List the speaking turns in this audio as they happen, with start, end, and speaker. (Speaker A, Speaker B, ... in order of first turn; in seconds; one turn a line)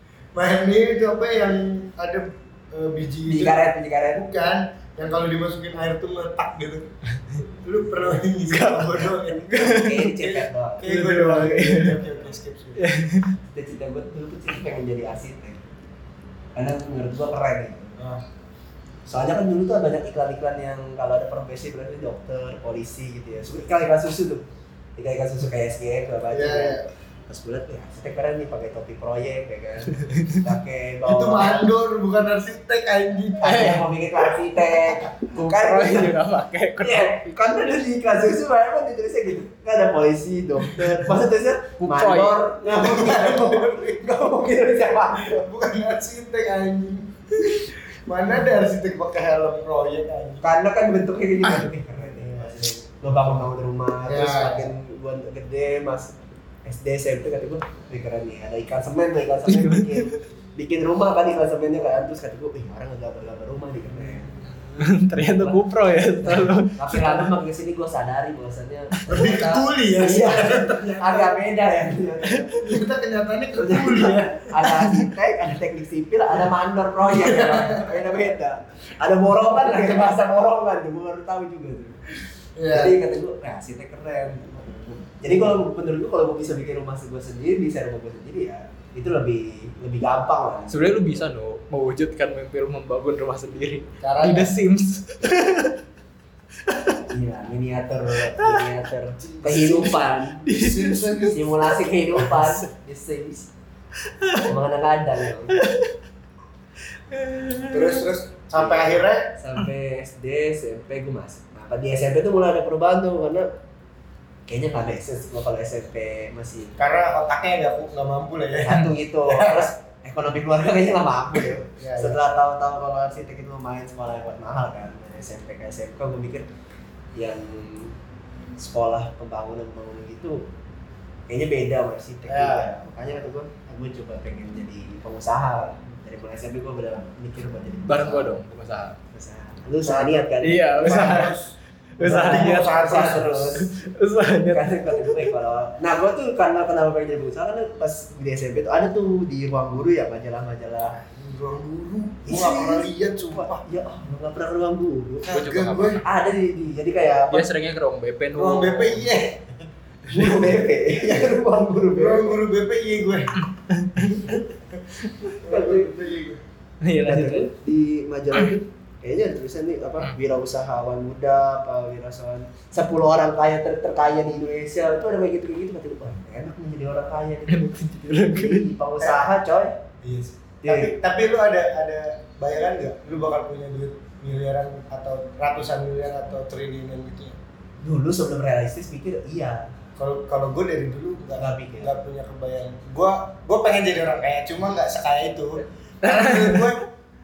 Speaker A: 0.3-6.9
Speaker B: 3.3-4.2
Speaker A: 7.6-9.5
Speaker C: 8.4-10.2
Speaker B: 9.3-10.8
Speaker A: 10.2-12.8
Speaker C: 10.8-12.0
Speaker C: 12.8-13.3
Speaker B: 13.5-15.6
Speaker B: 16.5-18.0
Speaker B: 19.1-24.4
Speaker B: 24.9-31.6
Speaker A: 26.3-26.9
Speaker C: 30.0-30.4
Speaker A: 31.1-33.8
Speaker B: 33.4-36.1
Speaker C: 33.4-33.9
Speaker C: 35.3-37.4
Speaker B: 36.8-45.5
Speaker C: 41.8-42.5
Speaker A: 42.6-50.5
Speaker B: 50.4-64.3
Speaker A: 52.1-53.5
Speaker A: 54.0-54.7
Speaker C: 59.5-60.2
Speaker C: 64.8-67.3
Speaker B: 65.4-72.6
Speaker A: 69.1-71.4
Speaker C: 72.3-72.7
Speaker A: 72.6-74.5
Speaker B: 73.6-82.0
Speaker C: 74.6-75.1
Speaker A: 77.1-78.0
Speaker A: 82.5-83.0
Speaker B: 82.7-91.0
Speaker C: 90.7-95.8
Speaker A: 94.0-94.5
Speaker C: 96.6-97.0
Speaker B: 97.1-100.4
Speaker C: 98.2-98.8
Speaker A: 99.2-101.5
Speaker C: 100.4-101.6
Speaker B: 101.3-103.5
Speaker C: 102.2-102.6
Speaker C: 104.1-104.5
Speaker B: 104.4-105.6
Speaker C: 105.5-106.0
Speaker C: 107.1-108.0
Speaker A: 107.7-109.3
Speaker B: 108.5-113.5
Speaker B: 114.5-116.8
Speaker A: 116.8-119.7
Speaker B: 118.6-126.5
Speaker A: 121.8-122.2
Speaker B: 127.1-128.0
Speaker B: 128.6-130.5
Speaker B: 131.3-138.3
Speaker A: 132.3-132.7
Speaker C: 137.9-139.0
Speaker B: 139.1-141.3
Speaker A: 139.8-143.5
Speaker C: 140.4-141.4
Speaker C: 142.0-145.3
Speaker B: 142.0-143.7
Speaker B: 144.5-150.9
Speaker A: 150.8-153.6
Speaker B: 152.2-155.3
Speaker A: 155.2-156.0
Speaker C: 155.3-156.0
Speaker B: 156.0-157.5
Speaker C: 157.3-159.1
Speaker A: 158.3-159.5
Speaker B: 160.1-162.4
Speaker A: 161.0-161.4
Speaker A: 161.9-163.4
Speaker C: 163.7-164.4
Speaker B: 165.3-165.9
Speaker A: 165.4-166.4
Speaker C: 166.8-167.5
Speaker B: 167.0-177.6
Speaker C: 177.5-178.7
Speaker B: 178.2-179.8
Speaker A: 180.0-187.4
Speaker B: 180.6-181.0
Speaker B: 187.8-189.7
Speaker A: 190.0-196.9
Speaker B: 191.4-191.9
Speaker C: 196.0-196.8